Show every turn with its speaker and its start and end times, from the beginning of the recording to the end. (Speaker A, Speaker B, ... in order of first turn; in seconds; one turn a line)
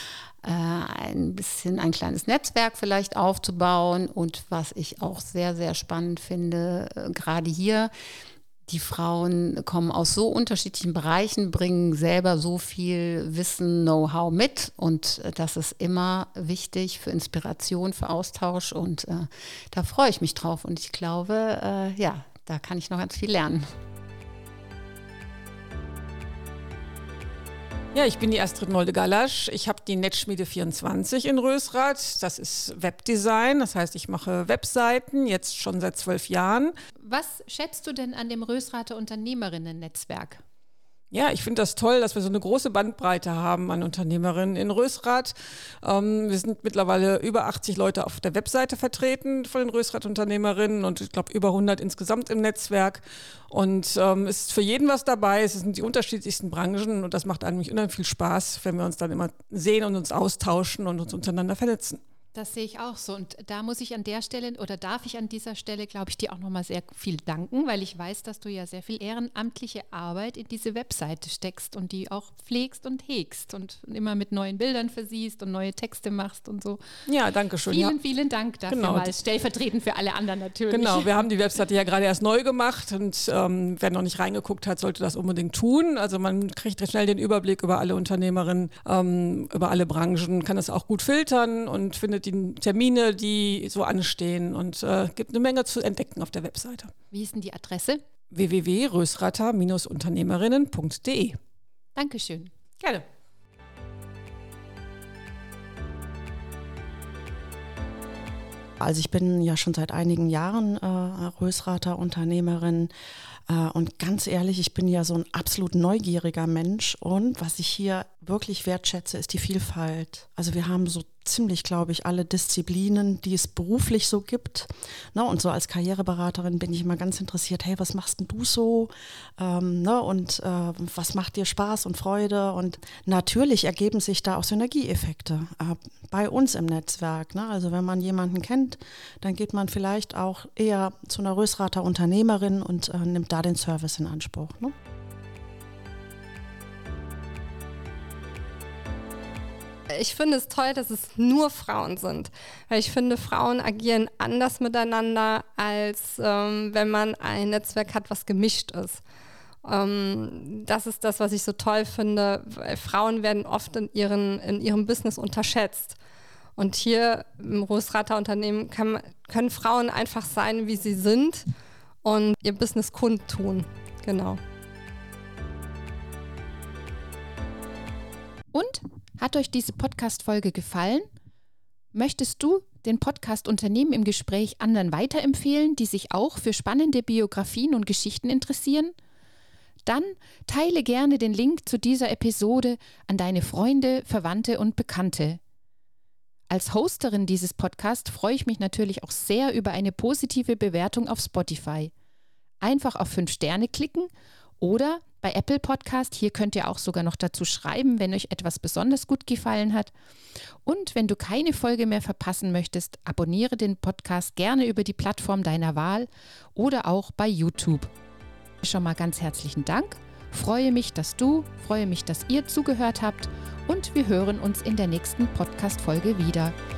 Speaker A: 0.4-7.9
Speaker A: 8.7-23.7
Speaker B: 27.9-36.7
Speaker C: 37.0-40.4
Speaker B: 41.1-62.0
Speaker C: 62.4-76.8
Speaker B: 77.1-78.0
Speaker C: 77.7-81.1
Speaker B: 78.7-79.2
Speaker B: 80.7-96.9
Speaker C: 97.1-98.0
Speaker B: 98.3-101.4
Speaker C: 102.0-103.0
Speaker D: 108.8-112.9
Speaker D: 113.5-144.7
Speaker E: 149.9-159.0
Speaker E: 159.6-165.9
Speaker E: 166.6-171.5
Speaker E: 172.0-174.4
Speaker C: 178.5-181.1
Speaker C: 181.9-188.9
Speaker C: 189.9-195.4
Speaker C: 196.5-201.9
Speaker C: 202.6-209.9
Speaker C: 210.7-217.9
Speaker C: 218.6-226.6